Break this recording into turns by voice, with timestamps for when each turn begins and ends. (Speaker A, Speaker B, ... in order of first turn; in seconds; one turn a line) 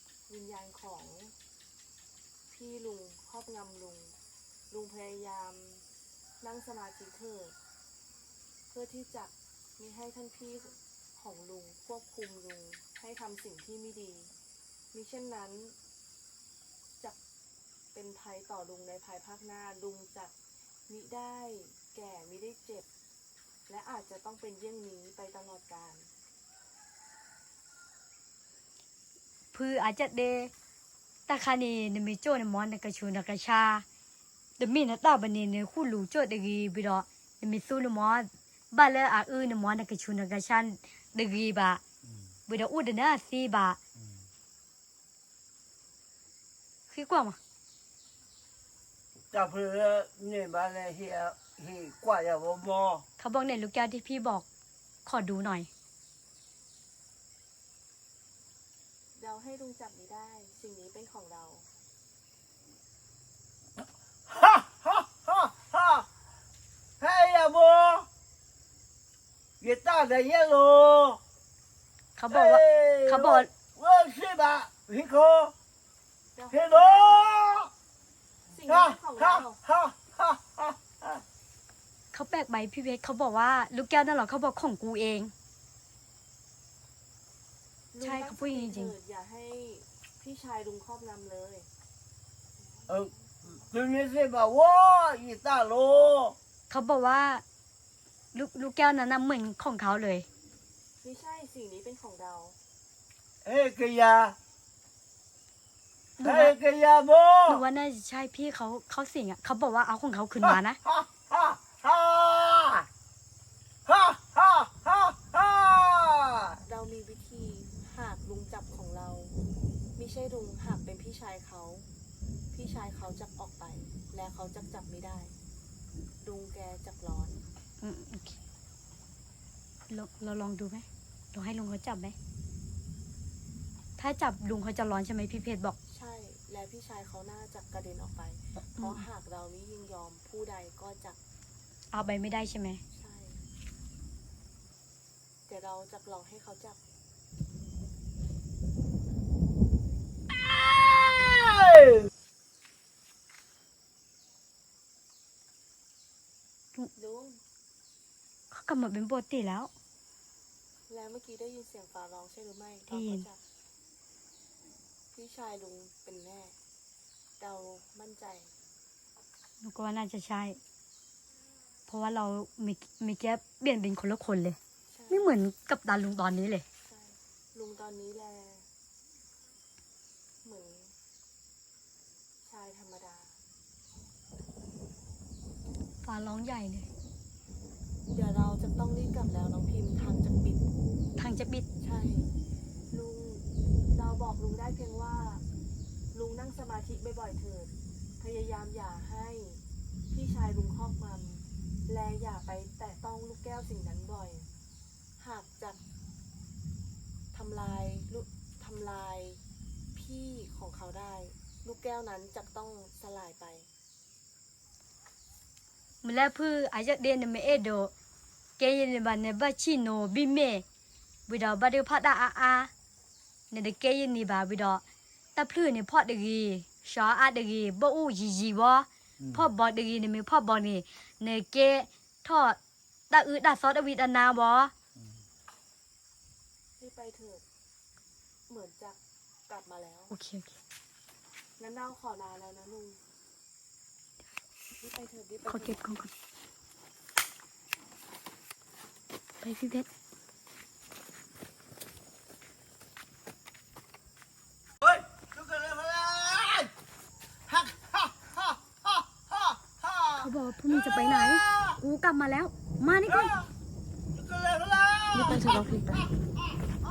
Speaker A: 0.3-1.3
Speaker A: 2.5-4.2
Speaker A: 4.7-5.8
Speaker A: 6.4-7.5
Speaker A: 8.7-14.3
Speaker A: 14.9-15.8
Speaker A: 17.9-20.3
Speaker A: 20.9-22.9
Speaker A: 23.7-26.1
Speaker B: 29.5-30.5
Speaker B: 31.3-33.8
Speaker B: 34.6-41.8
Speaker B: 42.5-43.8
Speaker B: 46.9-47.4
Speaker C: 49.3-53.0
Speaker B: 53.2-54.4
Speaker B: 55.0-55.7
Speaker A: 59.1-61.7
Speaker C: 64.3-66.0
Speaker C: 67.0-68.1
Speaker C: 69.6-71.2
Speaker B: 72.2-73.5
Speaker C: 72.3-75.5
Speaker A: 76.3-77.3
Speaker C: 76.5-77.7
Speaker A: 78.5-79.6
Speaker C: 78.7-81.2
Speaker B: 82.1-85.3
Speaker A: 87.9-91.7
Speaker B: 88.0-88.9
Speaker C: 92.9-96.3
Speaker B: 96.7-97.4
Speaker B: 98.3-100.3
Speaker A: 101.0-102.6
Speaker C: 103.4-104.3
Speaker B: 106.2-106.5
Speaker C: 106.2-107.6
Speaker B: 107.5-110.8
Speaker C: 110.4-112.9
Speaker C: 113.8-116.6
Speaker A: 116.6-119.4
Speaker A: 120.0-121.9
Speaker A: 122.5-125.3
Speaker A: 126.2-127.4
Speaker B: 127.8-128.4
Speaker B: 129.9-132.2
Speaker B: 134.0-135.8
Speaker A: 135.9-141.2
Speaker B: 138.6-139.0
Speaker B: 141.9-142.8
Speaker A: 142.9-143.4
Speaker A: 145.5-146.8
Speaker C: 151.2-152.0
Speaker A: 156.9-157.4
Speaker B: 158.5-159.7
Speaker A: 160.9-163.4
Speaker B: 162.9-163.3
Speaker A: 165.1-166.6
Speaker A: 167.4-168.5
Speaker B: 169.6-170.6
Speaker B: 171.9-174.6
Speaker A: 174.9-175.3
Speaker B: 175.1-176.6
Speaker A: 176.8-178.7
Speaker A: 180.4-180.9
Speaker A: 182.4-183.4
Speaker B: 186.0-186.9
Speaker A: 188.1-190.8
Speaker B: 191.2-191.7
Speaker A: 191.8-192.3
Speaker A: 192.9-195.4
Speaker A: 196.1-204.5
Speaker A: 205.2-205.8
Speaker A: 207.3-209.4
Speaker A: 209.9-213.7
Speaker B: 216.0-217.9
Speaker B: 218.6-220.6
Speaker B: 221.3-222.7
Speaker B: 223.5-224.8
Speaker B: 225.3-232.6
Speaker C: 229.2-229.5
Speaker B: 233.1-234.7
Speaker C: 235.0-235.2
Speaker A: 236.8-237.4
Speaker A: 238.5-240.1
Speaker B: 240.1-240.6
Speaker A: 241.6-243.0
Speaker A: 244.7-245.8
Speaker B: 245.4-246.1
Speaker B: 249.4-249.9
Speaker C: 254.8-256.7
Speaker C: 257.5-261.8
Speaker B: 260.1-263.4
Speaker C: 264.1-265.6
Speaker A: 265.1-266.1